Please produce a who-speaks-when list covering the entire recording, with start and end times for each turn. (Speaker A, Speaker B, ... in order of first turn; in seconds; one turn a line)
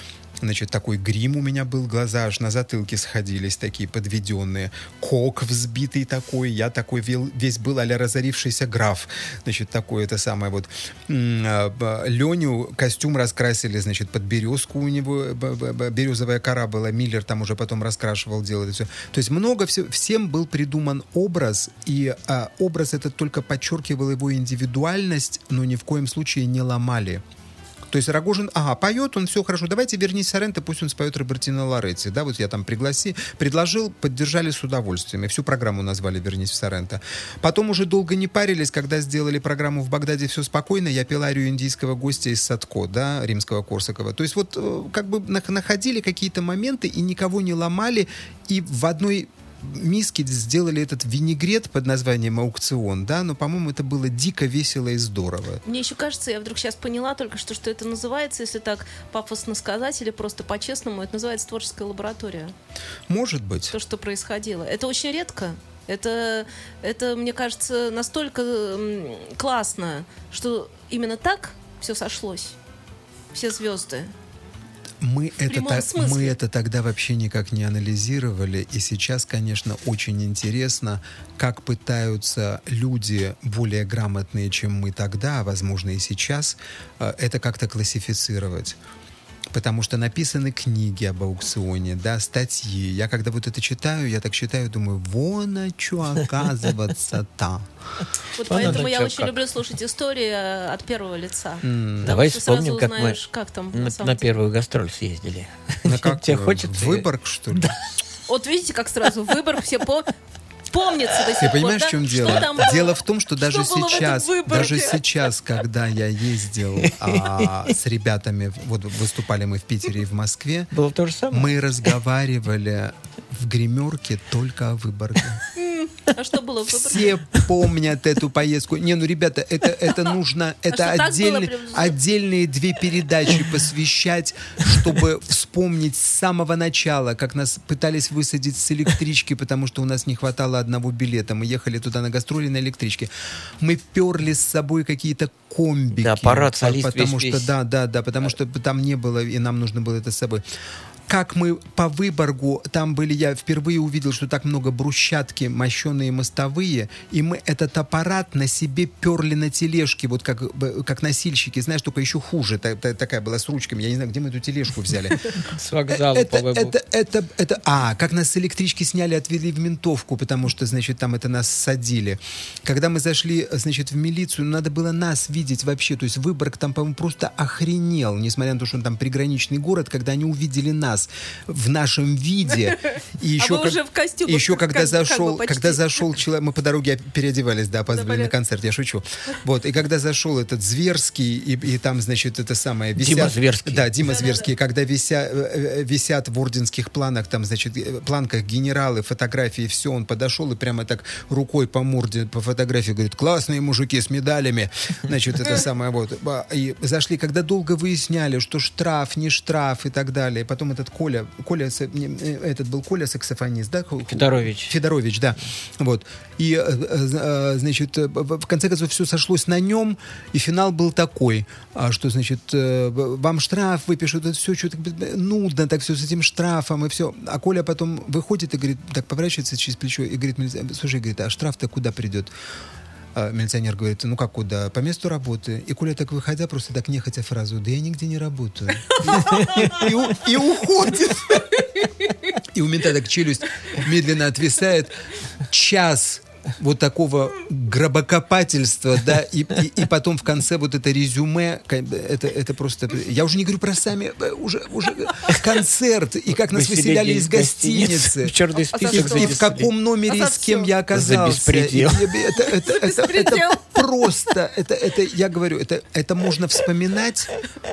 Speaker A: 0.4-27.2
Speaker A: 27.9-55.6
Speaker B: 55.6-62.5
Speaker A: 63.1-63.7
Speaker B: 63.7-72.5
Speaker B: 73.3-74.1
Speaker A: 75.0-88.8
Speaker B: 75.5-76.3
Speaker A: 89.5-97.6
Speaker B: 98.4-104.3
Speaker C: 98.5-99.3
Speaker A: 101.6-102.1
Speaker C: 102.0-103.2
Speaker C: 103.7-107.7
Speaker A: 105.8-107.8
Speaker B: 108.3-110.1
Speaker B: 110.7-115.0
Speaker A: 111.4-120.7
Speaker C: 116.8-117.5
Speaker C: 120.7-121.5
Speaker A: 121.3-125.4
Speaker B: 125.6-127.2
Speaker A: 126.7-150.4
Speaker B: 130.7-132.0
Speaker C: 146.0-147.5
Speaker A: 151.1-165.2
Speaker C: 165.4-166.8
Speaker A: 165.9-232.3
Speaker B: 183.4-186.1
Speaker B: 187.9-188.3
Speaker C: 193.0-193.9
Speaker B: 194.1-194.5
Speaker C: 214.1-214.8
Speaker A: 233.1-241.6
Speaker B: 239.1-239.7
Speaker C: 239.4-239.7
Speaker A: 242.5-258.3
Speaker C: 256.3-259.7
Speaker B: 258.7-259.4
Speaker A: 258.9-267.3
Speaker B: 260.1-260.7
Speaker C: 260.9-262.1
Speaker B: 262.4-263.9